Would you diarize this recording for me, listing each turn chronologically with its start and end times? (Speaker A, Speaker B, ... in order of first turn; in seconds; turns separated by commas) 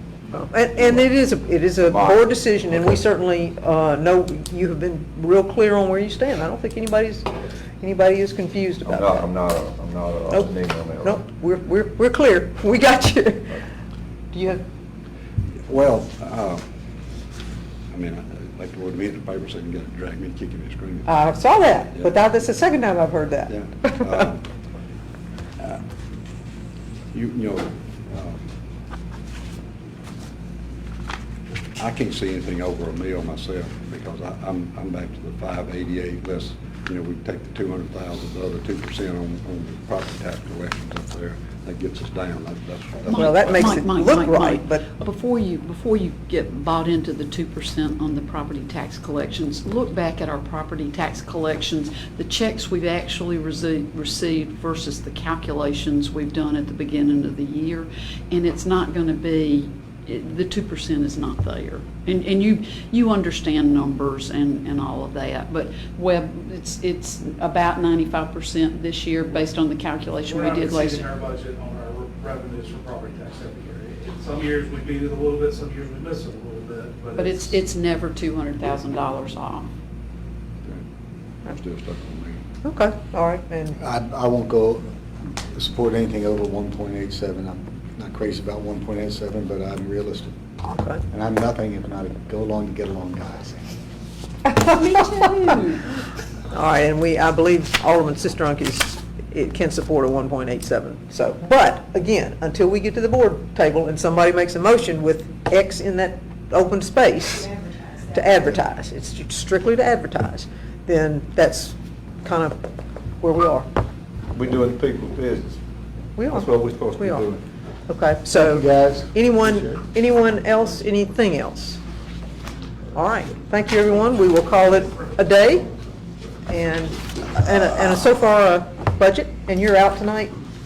Speaker A: 0.3-9.2, Speaker B: 0.8-1.1, Speaker B: 1.9-3.0, Speaker B: 8.8-11.2, Speaker A: 11.0-13.6, Speaker A: 14.3-14.6, Speaker C: 15.7-16.6, Speaker C: 17.9-21.1, Speaker A: 21.1-24.2, Speaker C: 23.5-24.4, Speaker C: 27.1-28.4, Speaker C: 31.8-43.7, Speaker D: 43.0-71.1, Speaker A: 43.1-44.9, Speaker E: 70.2-77.6, Speaker D: 77.2-79.7, Speaker C: 81.5-82.4, Speaker A: 82.6-83.8, Speaker F: 83.8-84.8, Speaker F: 85.5-90.3, Speaker A: 90.7-91.0, Speaker F: 91.1-93.7, Speaker D: 94.5-96.0, Speaker A: 96.5-112.7, Speaker A: 113.2-113.7, Speaker B: 114.3-115.5, Speaker A: 116.2-117.3, Speaker B: 116.3-117.4, Speaker A: 117.9-121.8, Speaker F: 118.3-119.8, Speaker A: 122.9-125.7, Speaker A: 126.5-130.3